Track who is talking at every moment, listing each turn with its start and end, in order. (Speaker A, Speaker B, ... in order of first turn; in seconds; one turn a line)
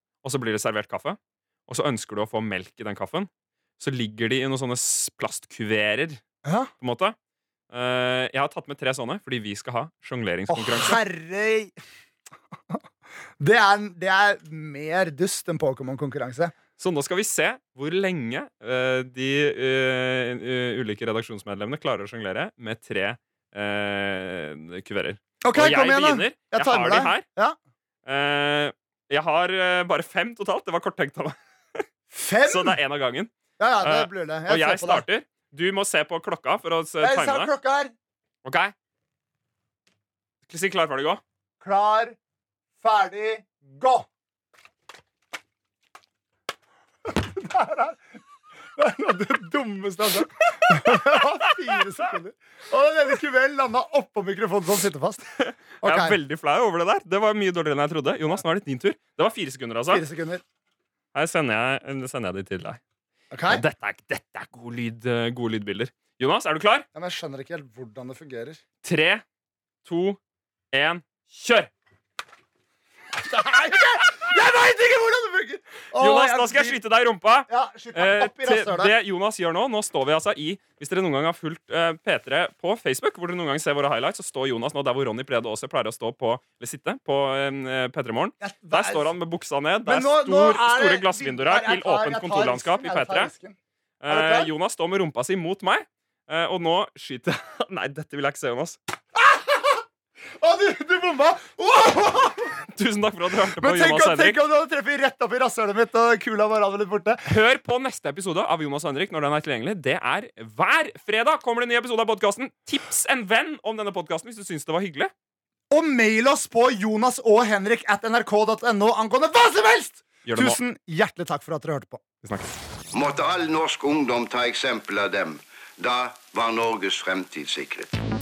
Speaker A: 0.2-6.2
Speaker B: 6.4-6.7
Speaker A: 6.8-7.2
Speaker A: 7.7-11.0
Speaker B: 10.5-11.7
Speaker B: 13.4-16.5
Speaker A: 16.8-27.2
Speaker B: 25.4-27.6
Speaker A: 28.0-31.8
Speaker B: 32.1-32.8
Speaker A: 32.5-33.3
Speaker B: 33.6-35.0
Speaker A: 33.8-37.5
Speaker B: 37.0-37.9
Speaker A: 38.4-38.7
Speaker A: 40.5-41.2
Speaker B: 41.6-42.2
Speaker B: 42.8-44.1
Speaker B: 47.0-48.0
Speaker B: 48.8-55.2
Speaker A: 50.9-51.2
Speaker A: 55.4-60.0
Speaker B: 55.8-56.2
Speaker B: 59.9-60.4
Speaker A: 61.1-62.8
Speaker B: 63.3-63.6
Speaker A: 63.5-66.8
Speaker B: 66.9-68.6
Speaker A: 68.8-69.2
Speaker A: 69.8-70.2
Speaker A: 70.7-71.7
Speaker B: 73.1-76.8
Speaker A: 76.0-93.3
Speaker B: 77.5-78.9
Speaker B: 88.4-89.1
Speaker B: 89.8-93.6
Speaker A: 94.0-98.8
Speaker B: 94.1-94.5
Speaker B: 99.1-99.8
Speaker B: 100.3-102.6
Speaker A: 102.7-104.4
Speaker B: 103.6-107.2
Speaker A: 107.3-115.1
Speaker B: 115.7-122.0
Speaker A: 120.2-120.6
Speaker A: 122.2-122.5
Speaker C: 122.9-127.9